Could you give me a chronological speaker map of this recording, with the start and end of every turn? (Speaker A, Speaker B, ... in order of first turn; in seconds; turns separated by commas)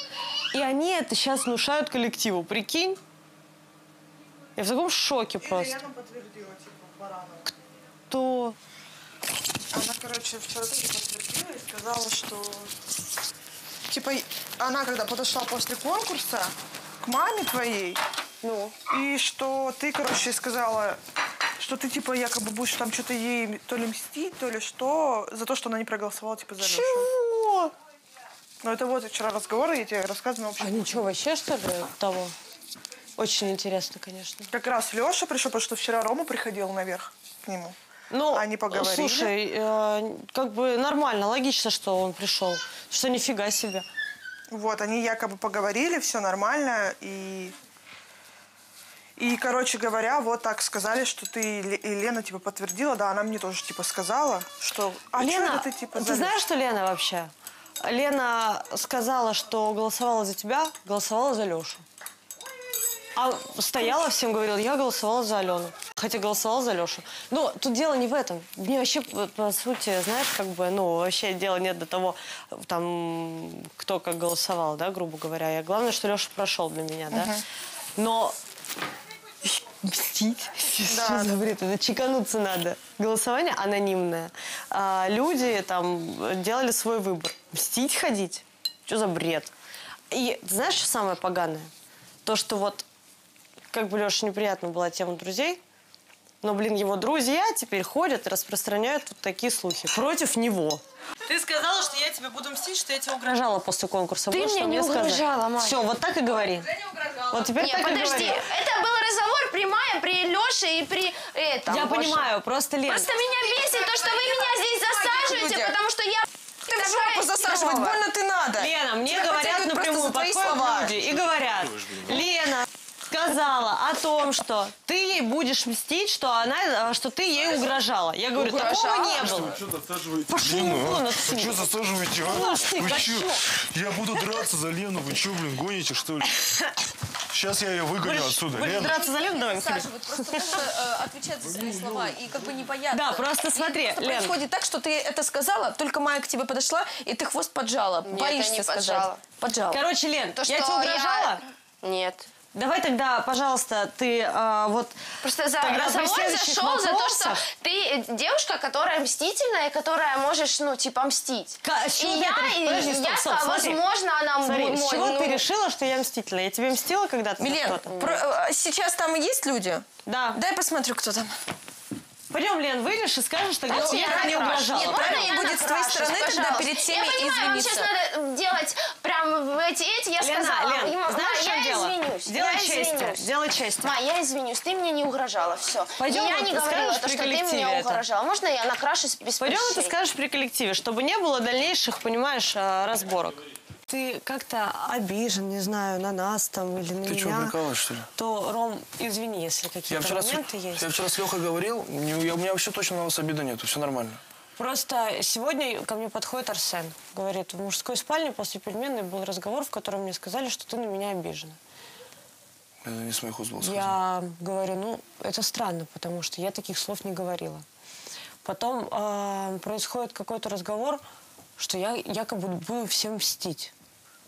Speaker A: 0.5-3.0, Speaker A: 4.5-5.8, Speaker B: 5.4-7.5, Speaker A: 8.1-8.6, Speaker B: 9.7-12.7, Speaker B: 13.9-18.0, Speaker A: 18.4-18.8, Speaker B: 18.9-21.0, Speaker B: 21.6-27.1, Speaker A: 26.6-27.7, Speaker B: 28.6-30.7, Speaker A: 30.6-32.3, Speaker A: 33.1-34.5, Speaker B: 34.5-37.8, Speaker A: 38.1-43.9, Speaker B: 38.3-39.3, Speaker B: 44.5-47.5, Speaker B: 49.2-56.3, Speaker A: 55.1-61.8, Speaker A: 63.1-77.4, Speaker A: 78.0-78.3, Speaker A: 79.4-89.5, Speaker B: 81.0-81.3, Speaker A: 90.1-91.7, Speaker A: 92.2-92.8, Speaker A: 93.7-95.6, Speaker A: 96.4-108.4, Speaker C: 104.3-105.8, Speaker C: 107.5-112.3, Speaker A: 111.7-113.1, Speaker C: 112.8-118.0, Speaker D: 113.3-115.8, Speaker D: 116.7-121.1, Speaker A: 118.5-129.7, Speaker D: 128.3-129.5, Speaker E: 129.7-136.4, Speaker A: 130.2-133.4, Speaker A: 136.4-136.7, Speaker E: 137.3-138.9, Speaker A: 138.0-140.7, Speaker D: 138.5-138.9, Speaker D: 139.4-149.8, Speaker A: 142.9-144.4, Speaker C: 148.0-149.3, Speaker A: 149.7-151.4, Speaker C: 150.3-152.3, Speaker A: 152.5-155.0, Speaker C: 155.2-165.4, Speaker A: 155.6-157.4, Speaker A: 161.6-163.8, Speaker A: 164.4-168.2, Speaker D: 167.4-171.3, Speaker A: 170.0-170.4, Speaker A: 172.3-175.3, Speaker C: 173.7-189.9, Speaker D: 173.7-177.9, Speaker A: 180.2-183.9, Speaker A: 186.0-188.0, Speaker A: 189.4-197.6, Speaker F: 197.1-198.1, Speaker A: 198.1-200.9, Speaker F: 199.9-204.2, Speaker A: 204.6-211.6, Speaker F: 212.8-213.9, Speaker A: 213.6-217.6, Speaker A: 218.4-221.0, Speaker A: 221.6-223.7